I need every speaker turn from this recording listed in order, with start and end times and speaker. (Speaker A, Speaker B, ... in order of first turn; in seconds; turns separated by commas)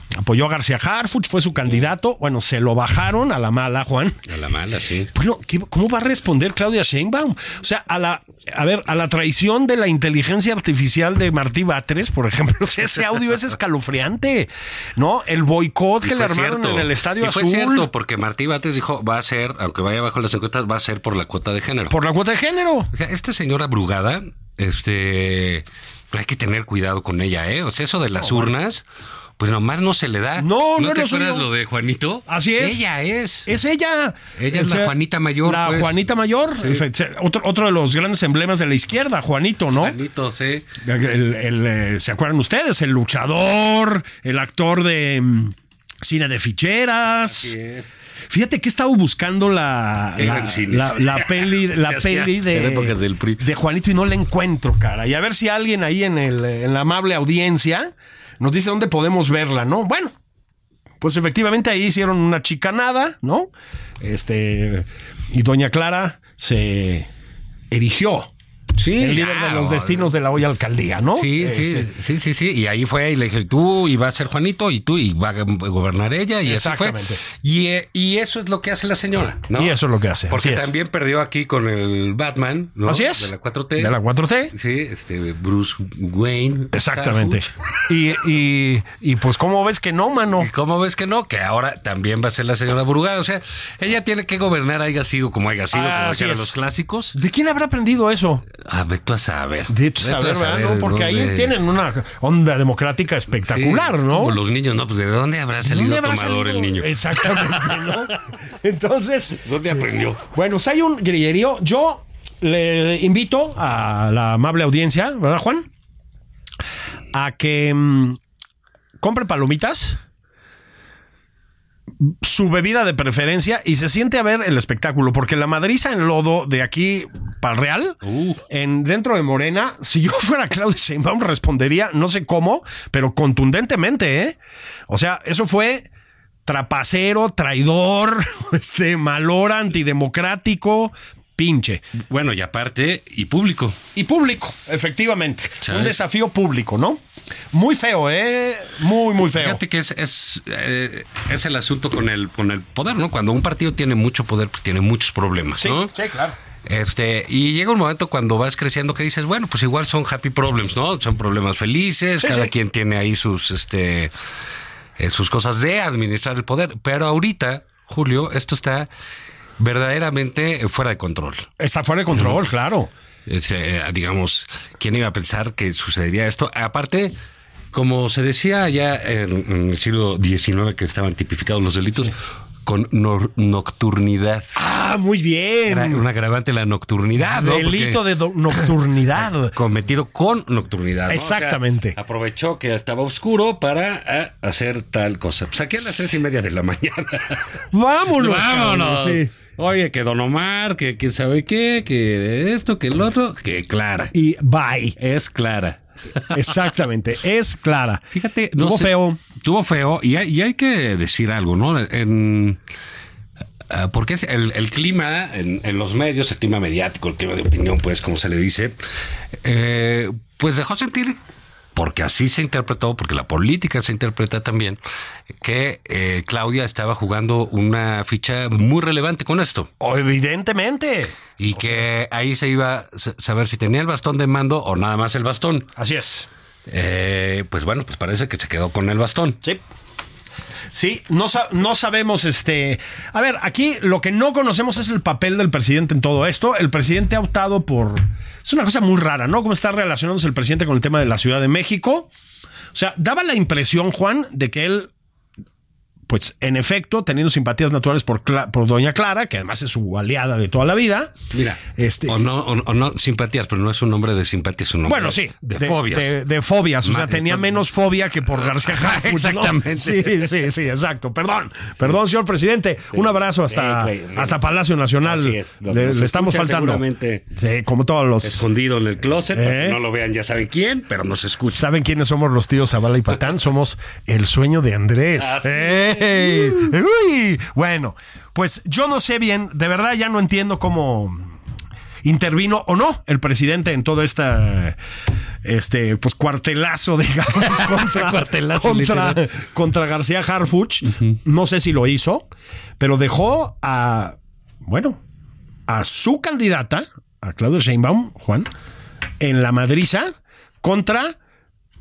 Speaker A: 0.2-4.2, Speaker B: 4.3-5.1, Speaker A: 5.1-17.9, Speaker B: 16.0-22.0, Speaker A: 21.9-22.9, Speaker B: 22.9-28.8, Speaker A: 28.2-28.5, Speaker B: 29.4-33.5, Speaker A: 30.4-31.5, Speaker A: 32.3-32.9, Speaker A: 33.5-34.9, Speaker B: 34.4-36.0, Speaker A: 35.5-40.0, Speaker B: 39.7-40.7, Speaker A: 40.8-47.6, Speaker B: 47.3-47.9, Speaker A: 48.3-60.1, Speaker B: 50.2-53.5, Speaker A: 61.0-67.1, Speaker A: 67.7-68.3, Speaker B: 68.8-70.1, Speaker A: 69.0-71.9, Speaker B: 71.1-84.0, Speaker A: 76.5-77.2, Speaker A: 79.5-80.7, Speaker A: 82.9-84.5, Speaker B: 84.5-87.5, Speaker A: 86.7-90.5, Speaker B: 90.3-97.2, Speaker A: 95.7-96.5, Speaker A: 97.2-98.5, Speaker B: 98.6-101.6, Speaker A: 99.7-104.4, Speaker B: 103.5-108.2, Speaker A: 105.6-115.7, Speaker B: 109.4-110.2, Speaker A: 117.1-118.2, Speaker A: 119.0-120.0, Speaker A: 122.0-134.4, Speaker B: 128.0-128.4, Speaker A: 134.9-135.9, Speaker A: 136.5-141.9, Speaker B: 142.0-143.8, Speaker A: 143.9-147.0, Speaker B: 145.6-146.0, Speaker A: 147.5-149.6, Speaker B: 149.3-155.9, Speaker A: 155.6-156.4, Speaker B: 156.7-164.1, Speaker A: 162.2-162.5, Speaker B: 165.0-168.9, Speaker B: 169.6-171.5, Speaker A: 171.6-172.9, Speaker B: 173.3-177.2, Speaker B: 177.7-184.6, Speaker A: 184.6-186.0, Speaker B: 185.7-188.7, Speaker A: 187.2-189.6, Speaker B: 189.4-197.5, Speaker A: 191.1-192.0, Speaker A: 197.7-199.3, Speaker B: 198.1-204.1, Speaker A: 204.1-205.0, Speaker B: 205.0-206.4, Speaker A: 206.3-208.1, Speaker B: 208.1-212.6, Speaker A: 208.6-209.2, Speaker B: 213.7-218.8, Speaker B: 219.4-221.2, Speaker B: 221.8-224.8, Speaker B: 225.4-229.7, Speaker A: 229.8-231.8, Speaker B: 231.4-235.7, Speaker A: 235.8-236.3, Speaker B: 236.7-239.4, Speaker A: 240.7-252.1, Speaker A: 252.7-254.9, Speaker A: 256.1-262.2, Speaker B: 261.3-266.2, Speaker A: 264.9-276.8, Speaker B: 266.8-267.6, Speaker B: 268.4-270.4, Speaker B: 272.9-274.4, Speaker B: 275.0-277.2, Speaker A: 277.3-278.4, Speaker B: 278.2-281.7, Speaker A: 279.3-279.8, Speaker A: 281.5-291.3, Speaker B: 285.2-286.7, Speaker A: 292.0-294.8, Speaker A: 295.4-302.3, Speaker B: 297.5-299.3, Speaker A: 302.8-305.0, Speaker A: 305.7-308.5, Speaker A: 309.2-311.2